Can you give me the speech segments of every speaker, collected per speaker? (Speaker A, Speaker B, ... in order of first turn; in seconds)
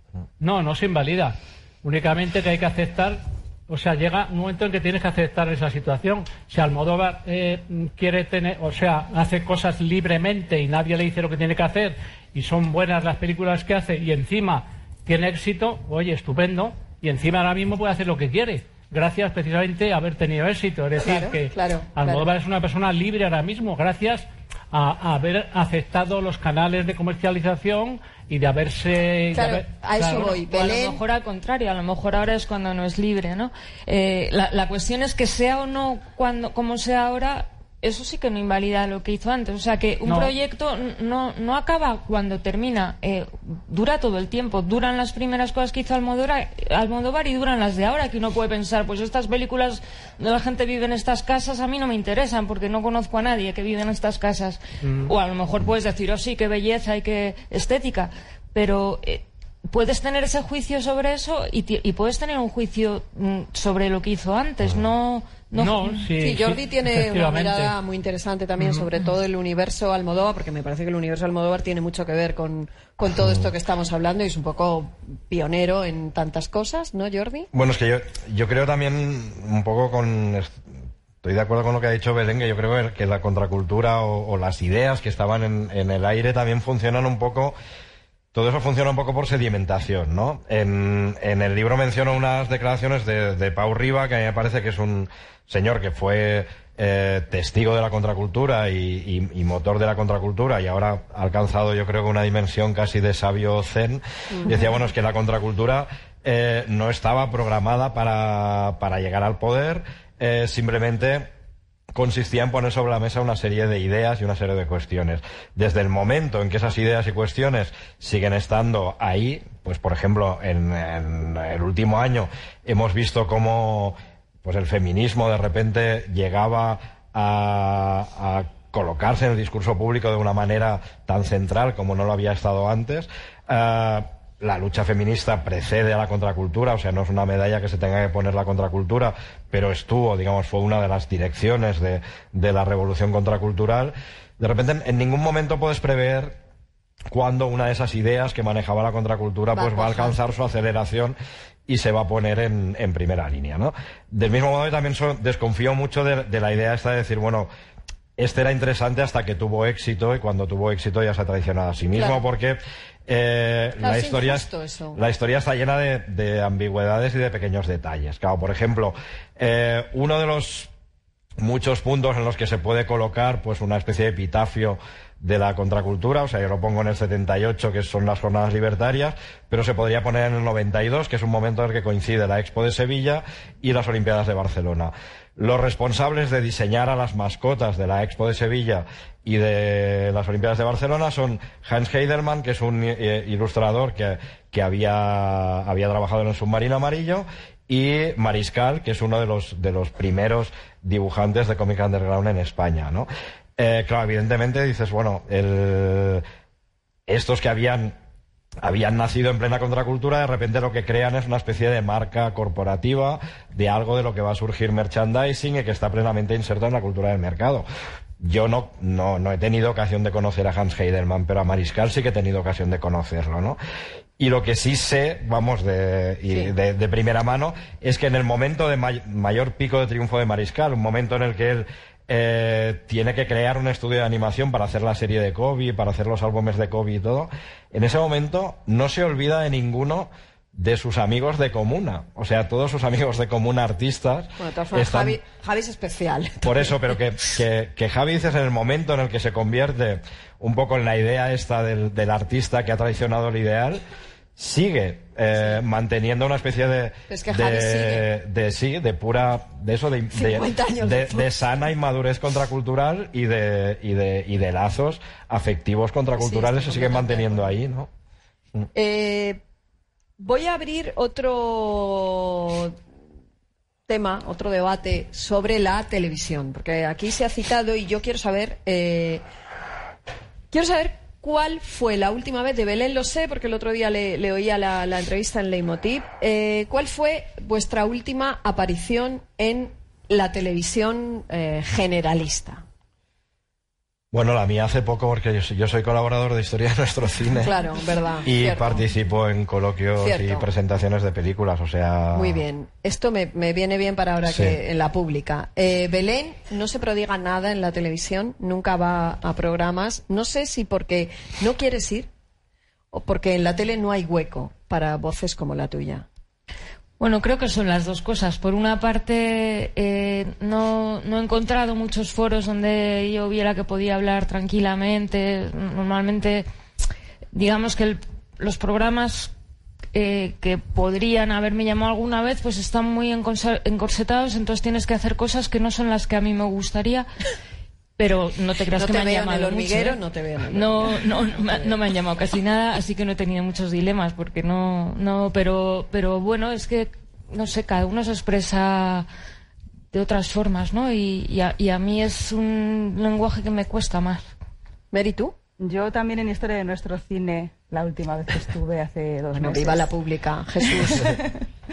Speaker A: 0.4-30.4, 40.0-40.3, 54.8-55.1, 65.5-67.7, 68.6-68.8
Speaker B: 21.0-22.2, 29.3-31.0, 66.2-77.5, 104.3-104.7, 149.5-150.2, 161.9-162.2, 163.8-165.0, 226.3-226.5, 244.4-247.0, 257.1-258.1, 260.1-261.3, 266.2-267.5, 268.7-269.4, 270.2-272.8, 273.9-279.2, 280.5-292.6, 297.4-298.8, 300.0-300.4, 302.1-312.1, 312.9-316.1, 338.8-341.7, 354.9-355.4, 359.4-361.2
Speaker C: 30.0-66.0, 317.0-326.4, 327.3-329.3, 329.9-337.1, 338.0-349.1, 349.9-354.3
Speaker D: 73.2-73.5, 77.5-80.6, 81.2-87.5, 88.3-111.3, 111.9-146.4, 147.1-151.2, 151.7-157.5, 158.2-170.7, 171.4-206.2, 207.1-207.9, 208.6-217.6, 218.2-223.6, 224.2-245.2, 246.4-253.8, 254.3-267.9, 294.1-297.5, 298.2-302.4, 304.2-304.6
Speaker E: 355.6-359.9, 360.8-361.3